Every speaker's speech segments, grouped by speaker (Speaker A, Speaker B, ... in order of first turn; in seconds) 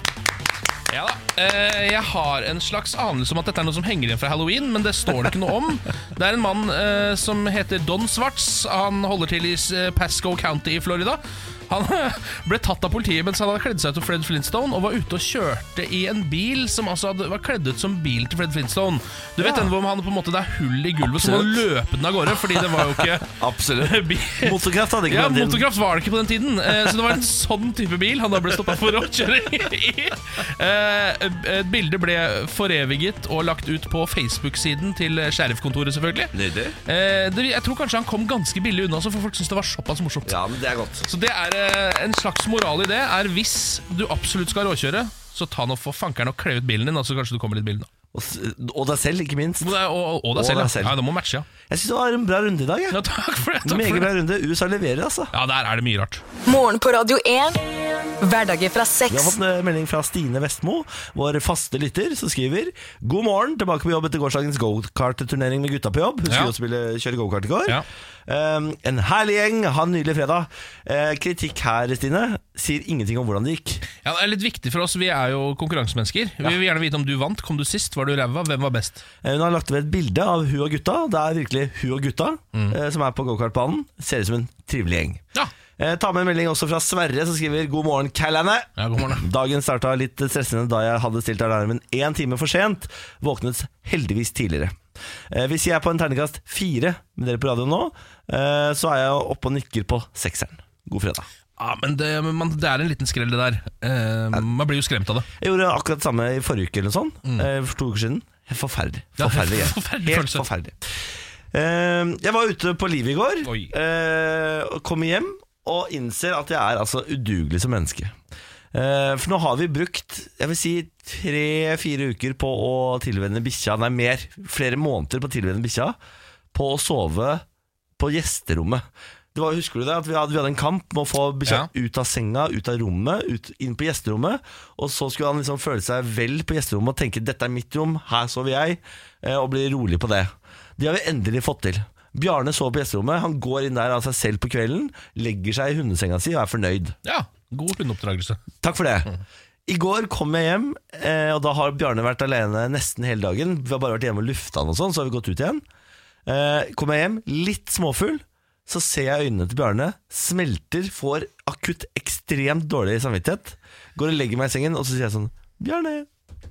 Speaker A: 0.9-40.4, 41.0-47.9, 49.6-51.5, 52.9-54.1, 55.3-56.2, 66.3-66.5, 74.0-79.0, 88.8-89.2, 101.6-105.3, 109.2-110.5, 113.4-113.7, 147.0-148.4
Speaker B: 19.4-19.7, 21.1-21.6, 22.7-25.7, 36.3-36.8, 40.2-41.1, 48.1-49.7, 50.3-51.0, 51.6-53.0, 53.6-55.3, 59.1-73.8, 79.2-85.2, 85.8-94.8, 95.3-101.3, 105.4-110.8, 111.5-118.1, 118.7-126.0, 126.5-127.4, 128.0-146.9, 148.6-149.1, 149.7-155.6, 156.2-166.1
Speaker C: 56.5-57.6, 58.2-59.4